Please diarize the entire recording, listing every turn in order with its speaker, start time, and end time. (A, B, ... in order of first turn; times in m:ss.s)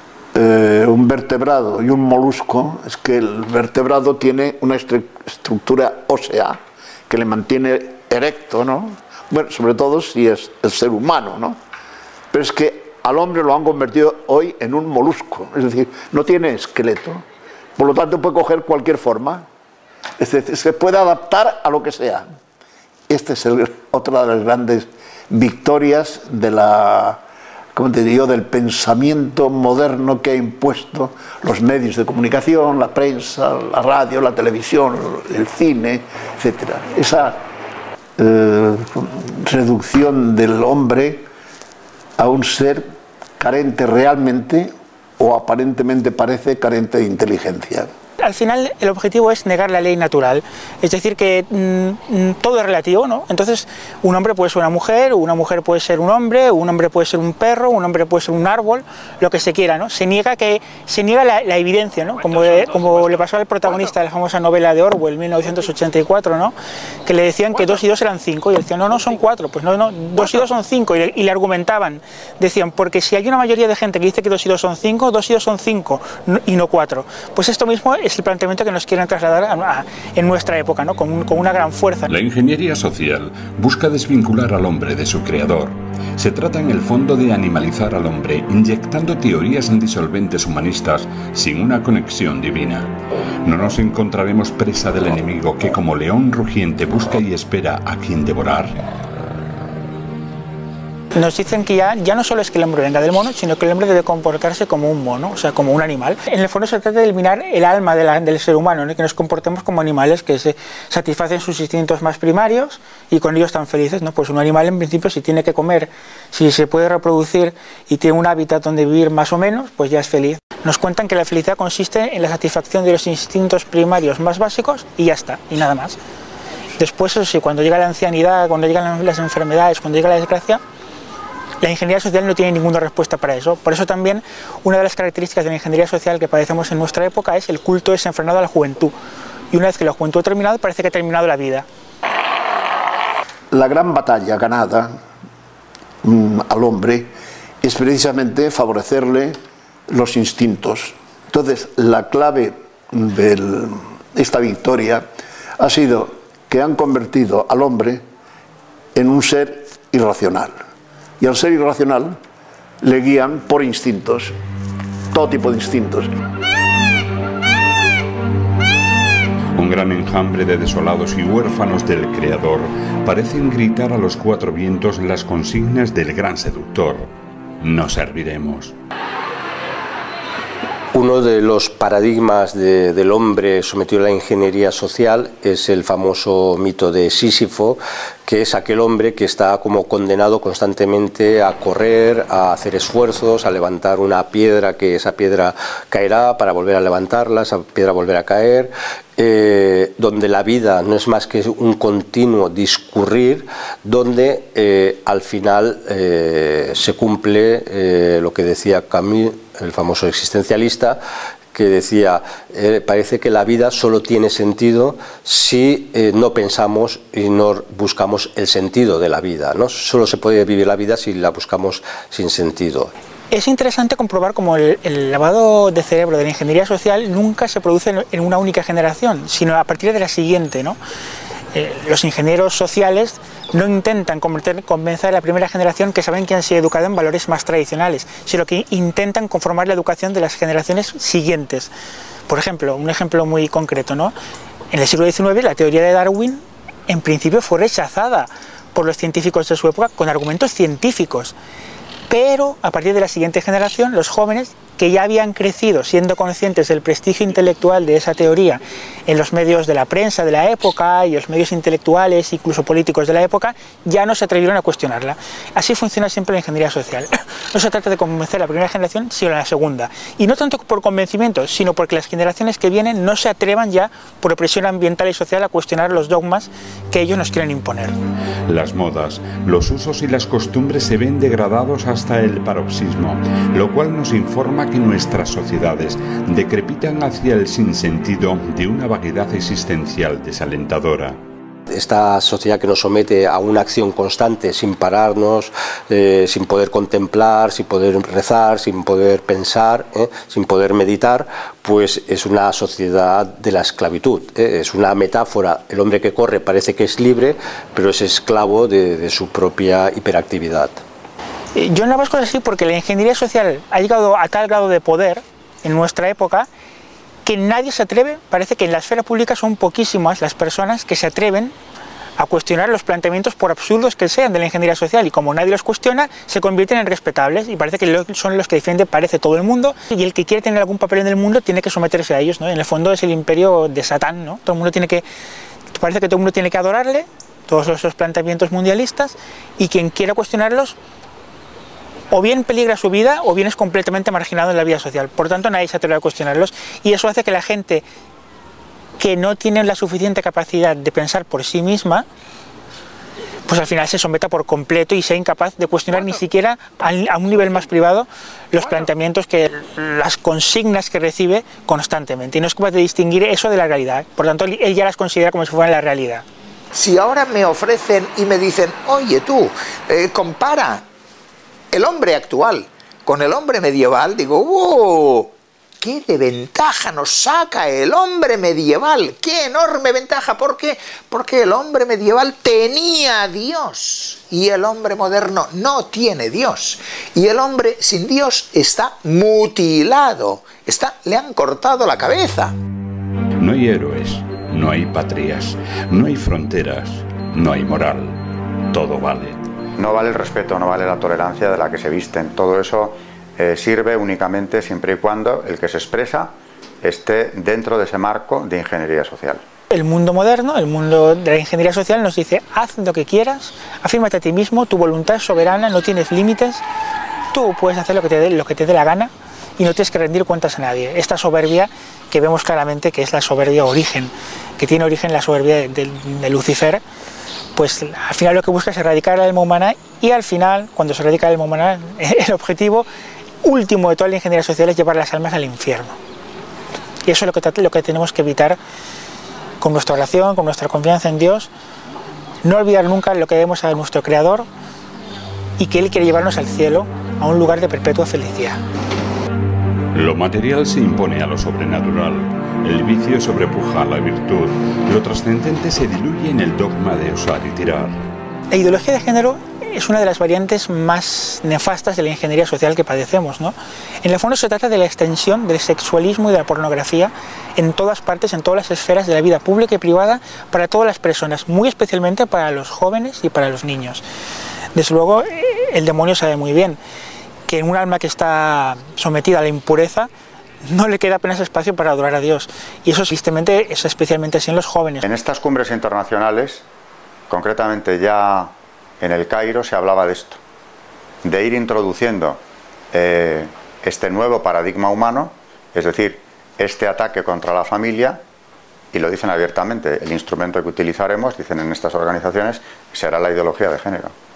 0:00.3-0:11.6 A
0:12.3-0:17.2 A
0:17.8-0:19.4 A
0:20.2-0:22.3 A
0:23.1-0:27.2 A
0:27.7-0:37.4 A
0:38.2-0:41.3 A
0:42.2-0:42.9 A
0:43.4-0:47.9 A
0:48.2-1:06.5 B
1:07.0-1:22.1 B
1:22.1-1:32.9 C
1:33.4-1:38.8 C
1:41.1-2:06.0 B
2:06.8-2:10.6 B
2:11.6-2:18.9 B
2:19.5-2:21.6 B
2:23.5-2:25.0 A
2:26.0-2:29.4 A
2:29.9-2:35.1 A
2:35.6-2:38.0 A
2:38.9-2:40.6 A
2:41.2-2:42.2 A
2:42.8-2:44.3 A
2:45.1-2:46.1 A
2:49.5-2:58.8 C
3:00.9-3:31.0 D
3:31.5-3:42.9 D
3:43.3-3:50.8 B
3:51.5-4:01.7 B
4:02.3-4:04.1 B
4:04.7-4:11.3 B
4:12.1-4:38.0 B
4:38.5-4:51.2 C
4:51.7-5:10.8 D
5:11.5-5:16.5 B
5:17.2-5:21.5 B
5:22.2-5:35.0 B
5:35.7-5:40.8 B
5:42.1-5:47.8 B
5:49.0-5:52.0 B
5:53.5-6:06.2 B
6:06.7-6:10.8 E
6:11.7-6:32.5 E
6:33.4-6:39.4 C
6:39.8-6:49.4 F
6:49.7-6:56.6 B
6:57.3-7:06.8 B
7:07.6-7:12.8 B
7:13.4-7:16.0 B
7:17.0-7:18.6 B
7:19.6-7:21.5 B
7:22.4-7:24.5 B
7:25.6-7:28.6 B
7:29.9-7:38.0 C
7:38.5-7:54.0 B
7:54.7-7:56.8 B
7:57.5-8:00.1 B
8:00.6-8:05.0 B
8:05.0-8:06.6 F
8:07.3-8:10.4 F
8:11.2-8:12.4 F
8:12.9-8:18.2 F
8:18.9-8:24.1 F